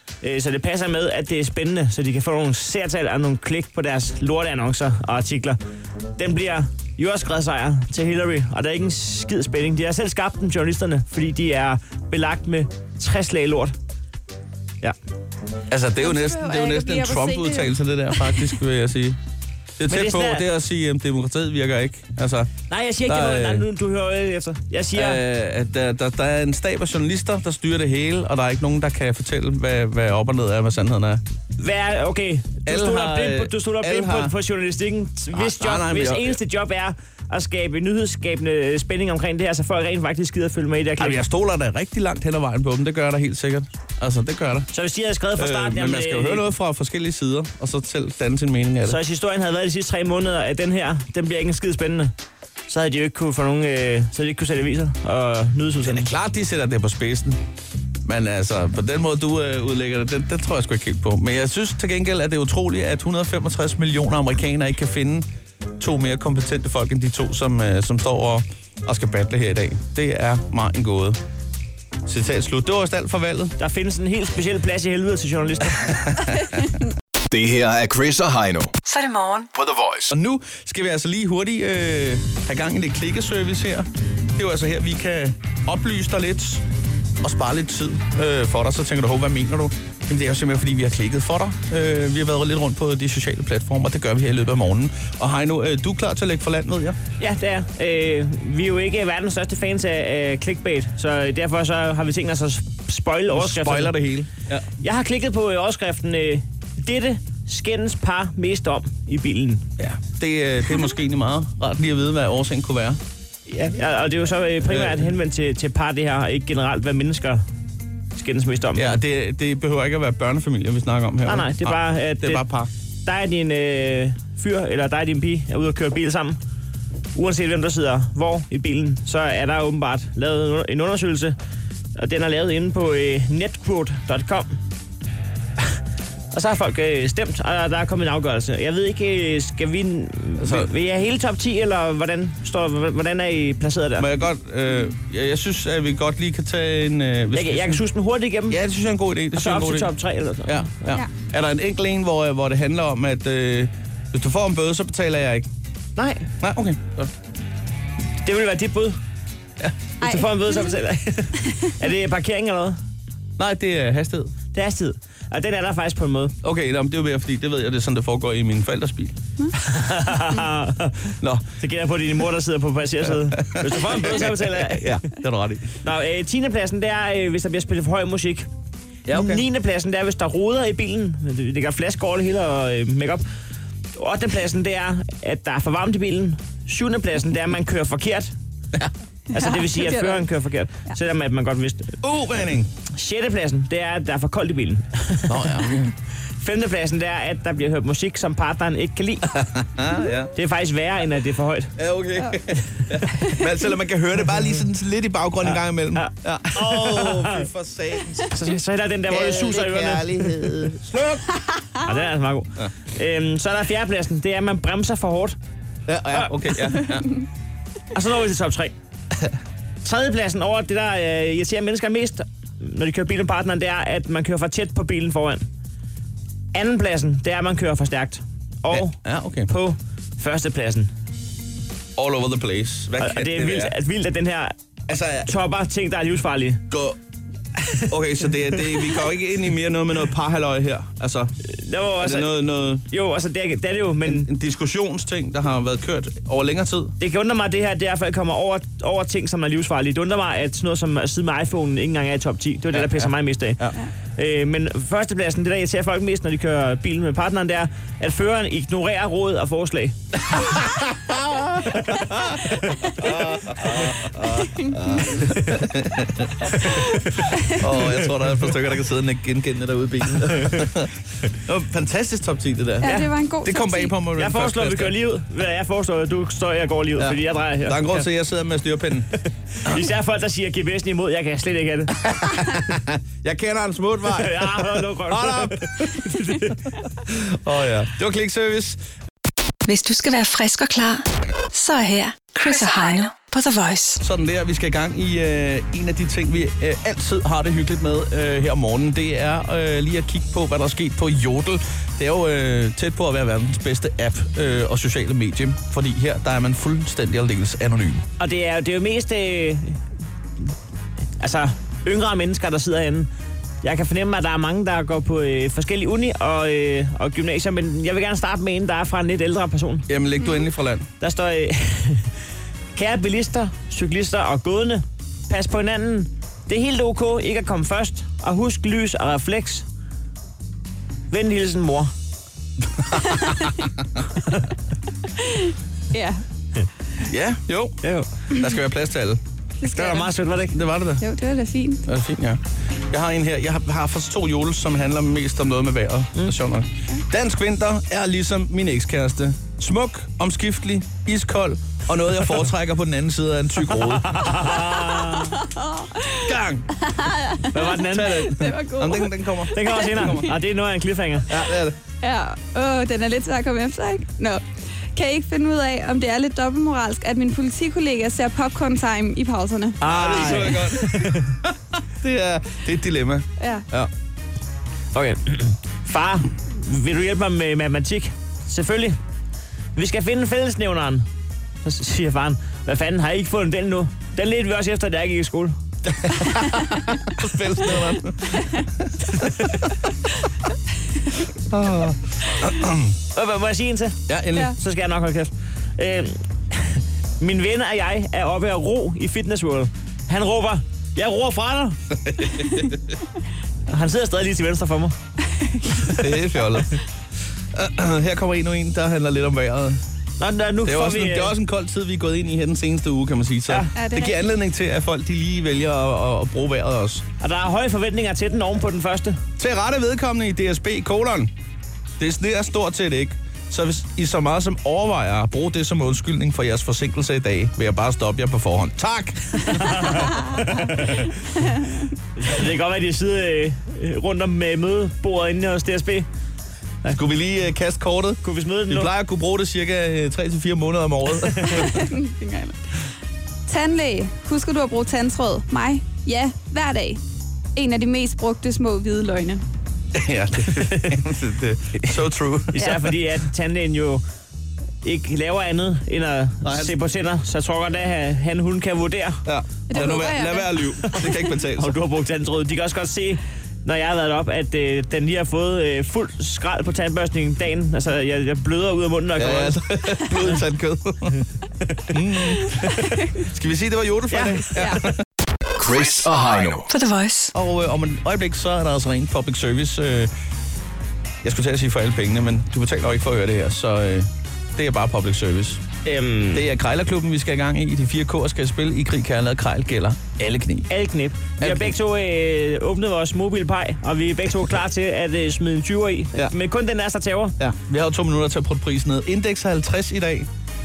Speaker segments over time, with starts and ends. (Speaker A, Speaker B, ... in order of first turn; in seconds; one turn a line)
Speaker A: 0.2-5.6
Speaker A: 6.2-13.8
Speaker B: 15.7-19.2
Speaker C: 16.0-18.5
Speaker B: 19.8-22.5
Speaker A: 19.9-20.4
Speaker A: 22.7-25.2
Speaker B: 23.1-23.7
Speaker B: 24.9-31.2
Speaker A: 31.6-41.2
Speaker B: 32.6-34.3
Speaker B: 35.3-36.4
Speaker B: 41.0-44.7
Speaker A: 44.7-46.5
Speaker B: 45.3-49.0
Speaker A: 48.8-52.1
Speaker A: 52.7-56.1
Speaker B: 55.8-57.4
Speaker B: 58.0-65.2
Speaker B: 65.8-71.2
Speaker B: 72.0-73.5
Speaker A: 73.6-75.9
Speaker B: 75.9-76.6
Speaker D: 77.3-78.7
Speaker E: 78.8-79.5
Speaker D: 79.5-80.1
Speaker B: 80.1-86.6
Speaker B: 87.2-97.0
Speaker A: 97.2-103.9
Speaker B: 103.3-104.7
Speaker A: 104.8-109.6
Speaker B: 109.8-113.0
Speaker A: 113.5-117.4
Speaker B: 114.6-115.1
Speaker A: 118.1-119.0
Speaker B: 118.7-122.7
Speaker A: 121.2-122.5
Speaker A: 123.0-126.4
Speaker A: 127.1-131.3
Speaker A: 131.9-134.5
Speaker A: 136.3-144.1
Speaker B: 140.4-140.7
Speaker B: 144.0-147.8
Speaker A: 147.3-148.6
Speaker B: 148.5-149.9
Speaker A: 149.3-151.0
Speaker B: 150.4-155.5
Speaker A: 156.0-156.3
Speaker B: 156.4-157.1
Speaker A: 158.2-159.0
Speaker C: 160.0-160.8
Speaker A: 160.0-162.8
Speaker B: 163.4-164.3
Speaker A: 164.5-166.3
Speaker B: 166.4-169.2
Speaker A: 169.5-174.9
Speaker B: 171.2-171.6
Speaker B: 173.1-175.8
Speaker A: 175.8-178.5
Speaker B: 179.1-179.4
Speaker A: 179.1-183.2
Speaker A: 183.9-188.3
Speaker A: 189.3-192.0
Speaker C: 189.3-190.3
Speaker B: 192.0-192.7
Speaker A: 192.9-195.5
Speaker B: 195.3-195.9
Speaker A: 196.4-199.3
Speaker B: 199.3-200.3
Speaker A: 200.3-201.7
Speaker B: 201.8-208.3
Speaker A: 205.4-207.5
Speaker A: 208.3-210.4
Speaker B: 209.1-211.3
Speaker A: 211.8-215.4
Speaker B: 215.9-217.1
Speaker A: 217.9-218.7
Speaker A: 219.8-225.5
Speaker A: 226.5-230.9
Speaker B: 228.7-229.5
Speaker B: 231.9-233.7
Speaker A: 233.0-234.5
Speaker B: 234.9-235.3
Speaker A: 235.2-236.6
Speaker B: 236.7-237.0
Speaker B: 237.8-241.3
Speaker A: 241.4-244.3
Speaker B: 242.0-242.8
Speaker B: 244.0-246.9
Speaker A: 247.0-253.6
Speaker B: 252.7-253.8
Speaker A: 254.2-259.9
Speaker B: 260.3-266.8
Speaker A: 261.7-263.1
Speaker C: 264.5-265.0
Speaker A: 266.5-267.1
Speaker B: 267.4-274.9
Speaker A: 270.3-270.7
Speaker C: 272.8-273.9
Speaker A: 274.2-278.0
Speaker B: 277.0-279.1
Speaker A: 279.5-282.3
Speaker B: 282.0-288.8
Speaker A: 284.1-286.6
Speaker E: 289.6-294.0
Speaker B: 294.0-308.1
Speaker A: 308.2-309.8
Speaker A: 311.2-313.1
Speaker A: 313.6-319.9
Speaker B: 319.9-320.9
Speaker A: 321.0-322.1
Speaker A: 322.7-329.6
Speaker A: 331.1-331.9
Speaker B: 332.8-333.5
Speaker C: 335.2-336.2
Speaker B: 337.0-339.2
Speaker A: 337.8-338.1
Speaker C: 339.6-340.1
Speaker A: 339.7-340.6
Speaker B: 340.5-341.0
Speaker C: 341.0-341.8
Speaker B: 341.9-354.6
Speaker A: 353.7-355.4
Speaker C: 355.1-360.3
Speaker B: 356.2-356.7
Speaker A: 357.5-358.3
Speaker B: 357.8-360.3
Speaker A: 359.5-361.3
Speaker B: 361.3-361.8
Speaker C: 362.0-364.4
Speaker C: 364.9-369.8
Speaker A: 369.8-371.3
Speaker B: 369.8-373.9
Speaker C: 373.4-373.6
Speaker A: 374.9-379.0
Speaker A: 379.7-381.1
Speaker A: 381.6-385.6
Speaker B: 385.9-389.8
Speaker B: 391.4-392.9
Speaker A: 393.1-401.8
Speaker B: 394.1-394.5
Speaker B: 401.9-402.9
Speaker A: 403.7-404.9
Speaker B: 405.9-406.8
Speaker B: 407.5-409.8
Speaker A: 410.2-411.3
Speaker B: 410.6-417.0
Speaker C: 413.7-414.2
Speaker A: 417.2-419.2
Speaker B: 419.4-421.3
Speaker B: 422.0-429.8
Speaker A: 429.4-431.1
Speaker A: 432.2-436.1
Speaker B: 436.9-441.9
Speaker A: 438.2-438.9
Speaker A: 441.3-441.6
Speaker C: 441.5-442.9
Speaker C: 443.5-447.0
Speaker C: 447.5-449.4
Speaker B: 449.9-452.8
Speaker A: 450.6-451.0
Speaker A: 452.5-454.0
Speaker A: 454.8-459.2
Speaker B: 456.4-456.8
Speaker B: 459.2-461.7
Speaker C: 459.7-460.7
Speaker A: 461.6-469.6
Speaker B: 469.1-471.2
Speaker B: 471.9-474.9
Speaker A: 474.1-474.8
Speaker D: 475.6-476.7
Speaker E: 476.7-477.3
Speaker B: 477.3-480.1
Speaker B: 481.2-485.6
Speaker A: 485.8-486.4
Speaker B: 486.3-490.7
Speaker A: 490.7-497.4
Speaker B: 491.4-491.7
Speaker B: 497.4-500.3